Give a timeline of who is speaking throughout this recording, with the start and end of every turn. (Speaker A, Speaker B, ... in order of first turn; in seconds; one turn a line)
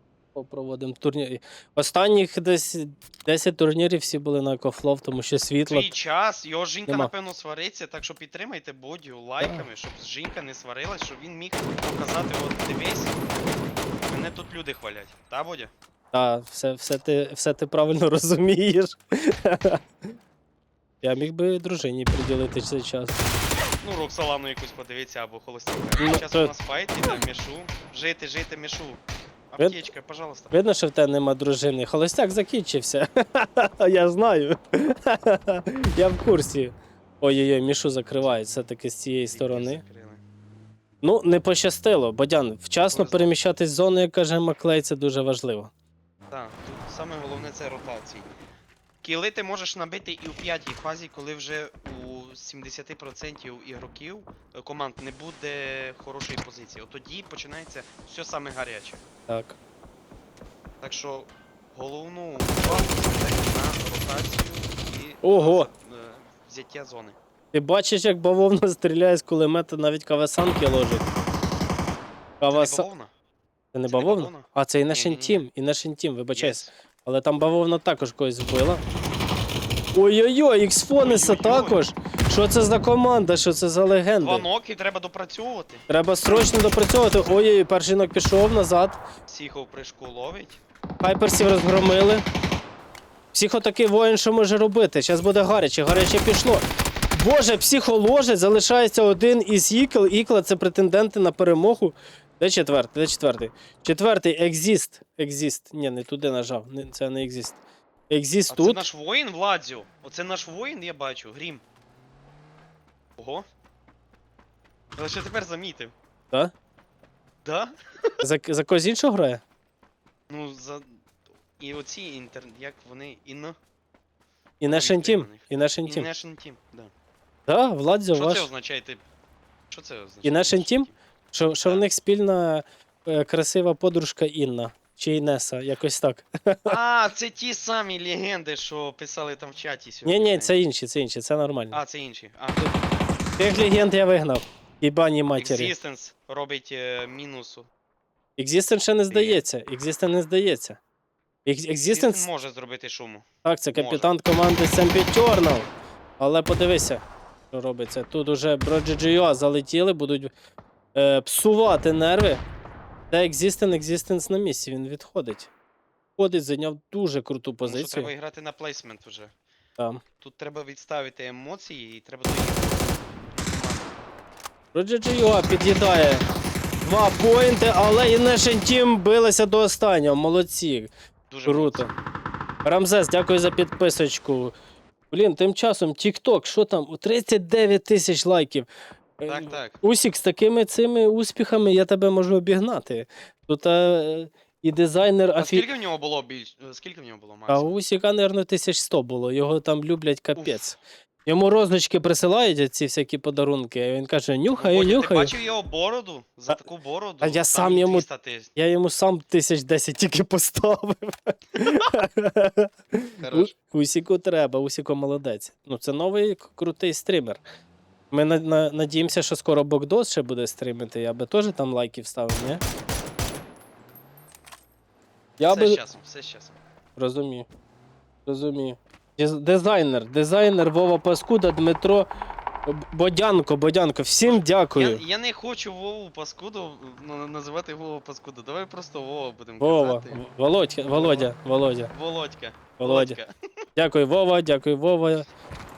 Speaker A: 0.3-6.0
Speaker B: 5.7-13.2
Speaker A: 6.9-7.1
Speaker A: 9.4-9.7
Speaker B: 14.1-15.7
Speaker A: 16.1-19.8
Speaker A: 21.0-23.3
Speaker B: 23.8-30.5
Speaker A: 26.0-26.5
Speaker A: 30.5-39.8
Speaker B: 39.3-40.2
Speaker A: 41.0-45.7
Speaker B: 42.9-43.3
Speaker B: 46.3-48.4
Speaker B: 49.0-59.1
Speaker A: 59.3-59.6
Speaker B: 60.8-67.2
Speaker A: 65.2-65.7
Speaker A: 67.5-71.1
Speaker A: 72.4-72.9
Speaker B: 72.5-73.1
Speaker A: 73.7-78.8
Speaker B: 73.8-75.5
Speaker B: 76.3-76.7
Speaker A: 80.0-84.5
Speaker B: 81.0-81.8
Speaker B: 84.2-85.9
Speaker A: 85.9-89.0
Speaker B: 89.3-90.6
Speaker A: 91.0-92.3
Speaker A: 93.3-107.6
Speaker A: 108.1-108.8
Speaker B: 108.5-111.6
Speaker B: 113.2-113.5
Speaker B: 115.0-115.9
Speaker B: 117.4-117.7
Speaker A: 118.2-119.4
Speaker B: 120.3-121.1
Speaker B: 121.6-123.6
Speaker A: 124.6-126.1
Speaker B: 124.7-126.9
Speaker A: 127.5-128.5
Speaker B: 128.1-129.0
Speaker B: 129.7-131.0
Speaker A: 130.2-136.8
Speaker B: 136.7-140.6
Speaker A: 140.1-141.8
Speaker B: 141.7-143.0
Speaker A: 143.4-145.7
Speaker B: 145.4-147.7
Speaker A: 148.4-150.8
Speaker B: 149.1-149.4
Speaker A: 151.4-152.3
Speaker B: 151.8-154.1
Speaker A: 153.4-160.3
Speaker A: 160.9-162.4
Speaker A: 163.1-165.5
Speaker A: 166.2-168.1
Speaker B: 167.6-169.3
Speaker A: 169.8-170.0
Speaker B: 170.2-174.0
Speaker A: 174.7-176.3
Speaker A: 176.8-180.9
Speaker B: 181.3-182.0
Speaker A: 181.5-181.9
Speaker A: 182.7-184.5
Speaker A: 185.1-195.7
Speaker B: 189.3-189.8
Speaker B: 195.4-197.7
Speaker A: 197.5-205.3
Speaker B: 200.4-200.6
Speaker B: 204.6-208.5
Speaker A: 207.2-217.4
Speaker B: 211.6-211.9
Speaker B: 213.2-213.5
Speaker A: 218.1-222.6
Speaker A: 225.4-225.8
Speaker B: 225.5-226.6
Speaker A: 227.0-227.5
Speaker A: 228.3-232.1
Speaker A: 232.7-235.0
Speaker B: 234.2-240.2
Speaker A: 239.6-241.9
Speaker B: 240.9-241.3
Speaker B: 241.9-243.3
Speaker A: 242.8-243.2
Speaker A: 243.8-245.3